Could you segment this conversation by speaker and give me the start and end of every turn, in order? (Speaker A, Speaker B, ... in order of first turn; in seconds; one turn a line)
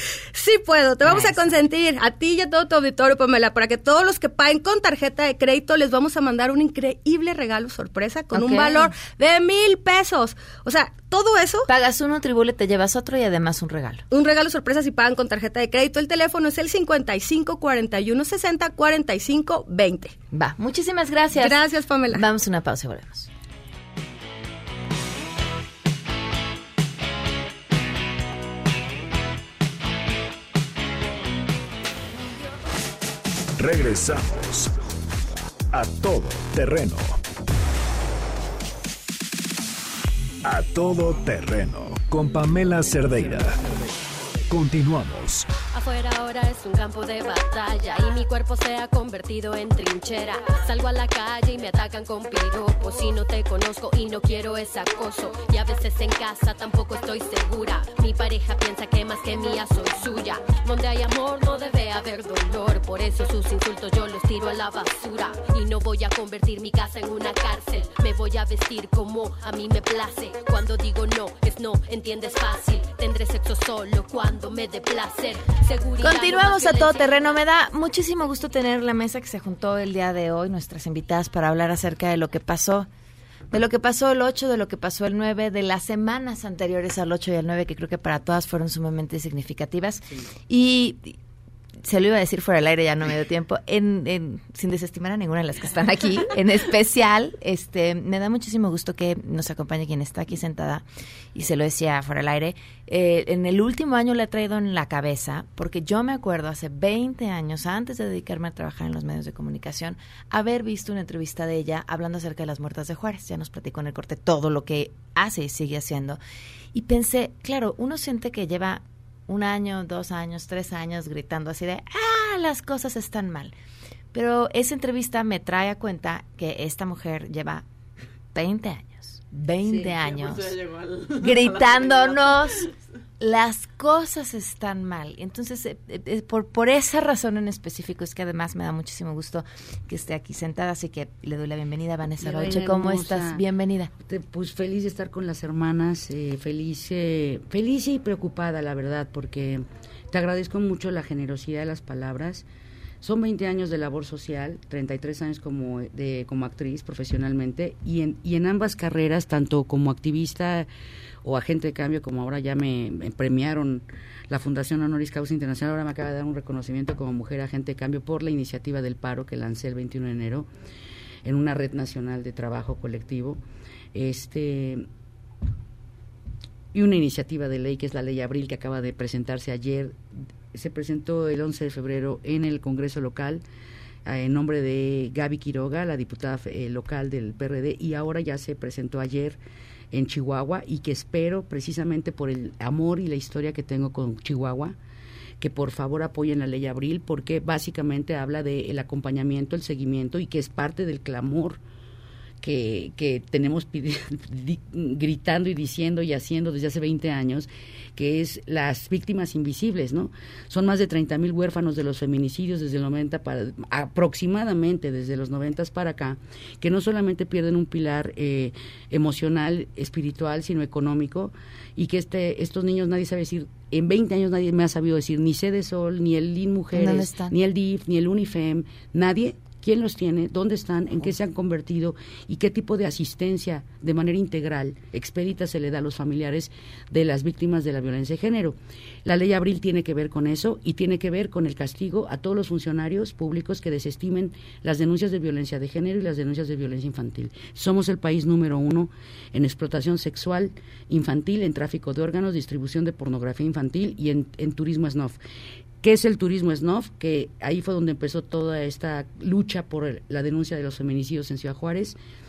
Speaker A: 0.3-11.7
Speaker B: 1.0-1.5
Speaker B: 8.3-8.9
Speaker B: 11.7-14.0
Speaker A: 14.1-20.1
Speaker B: 20.3-21.6
Speaker A: 21.3-22.2
Speaker B: 22.1-23.3
Speaker C: 33.6-34.7
Speaker C: 35.7-37.2
Speaker C: 40.4-43.6
Speaker C: 44.5-45.5
Speaker D: 45.7-77.3
Speaker B: 76.0-82.9
Speaker B: 83.5-91.2
Speaker B: 91.8-116.2
Speaker B: 116.7-123.5
Speaker B: 124.1-127.7
Speaker B: 128.3-130.6
Speaker B: 131.1-143.9
Speaker E: 142.2-143.4
Speaker E: 144.0-152.4
Speaker E: 153.0-160.7
Speaker E: 161.2-170.5
Speaker E: 171.2-173.4
Speaker E: 173.9-174.8
Speaker E: 176.7-180.0
Speaker E: 180.5-183.4
Speaker E: 184.0-189.4
Speaker E: 189.9-194.8
Speaker E: 195.4-201.6
Speaker E: 202.4-255.2
Speaker B: 226.7-227.3
Speaker E: 255.8-262.0